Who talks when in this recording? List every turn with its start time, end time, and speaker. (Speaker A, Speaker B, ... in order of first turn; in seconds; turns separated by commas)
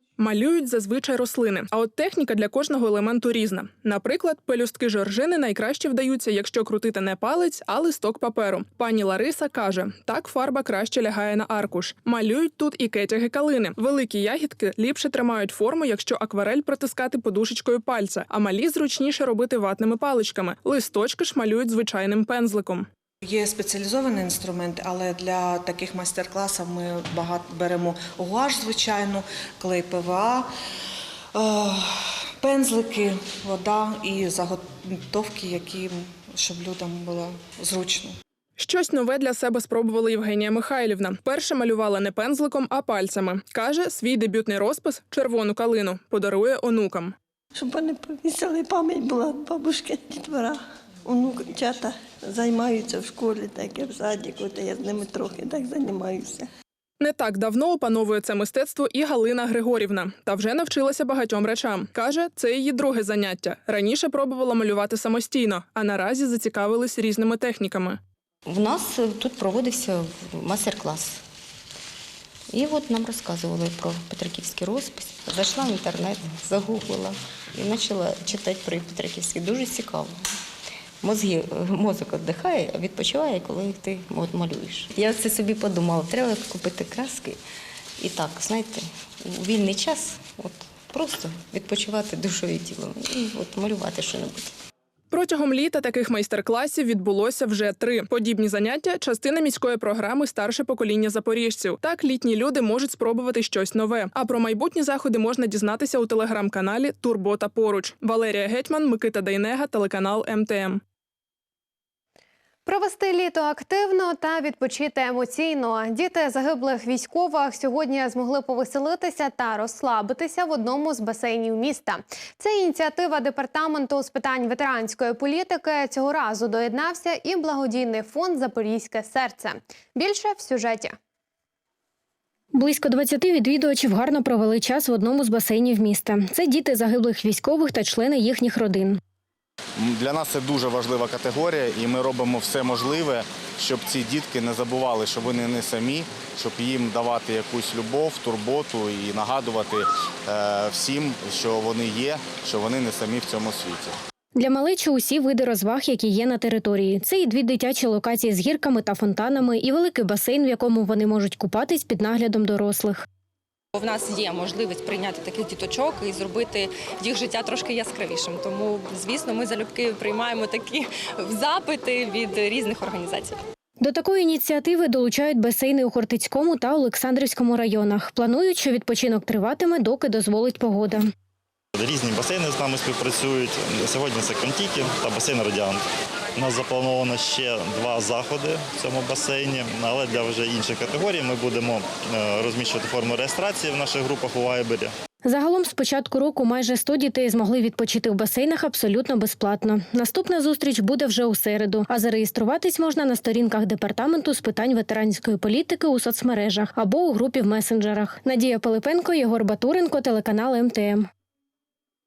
Speaker A: 0.2-22.9, Speaker B: 23.2-30.5, Speaker B: 31.3-38.2, Speaker A: 38.6-47.1, Speaker C: 47.5-56.5, Speaker A: 57.0-68.0, Speaker D: 68.5-71.2, Speaker D: 72.5-80.2, Speaker D: 81.0-87.4, Speaker D: 88.0-94.5, Speaker A: 95.1-110.8, Speaker E: 112.7-131.0, Speaker F: 132.5-139.0, Speaker G: 139.8-153.9, Speaker F: 154.4-163.0, Speaker H: 163.7-173.4, Speaker F: 173.8-181.1, Speaker I: 181.8-185.8, Speaker I: 186.4-194.9, Speaker F: 195.2-211.1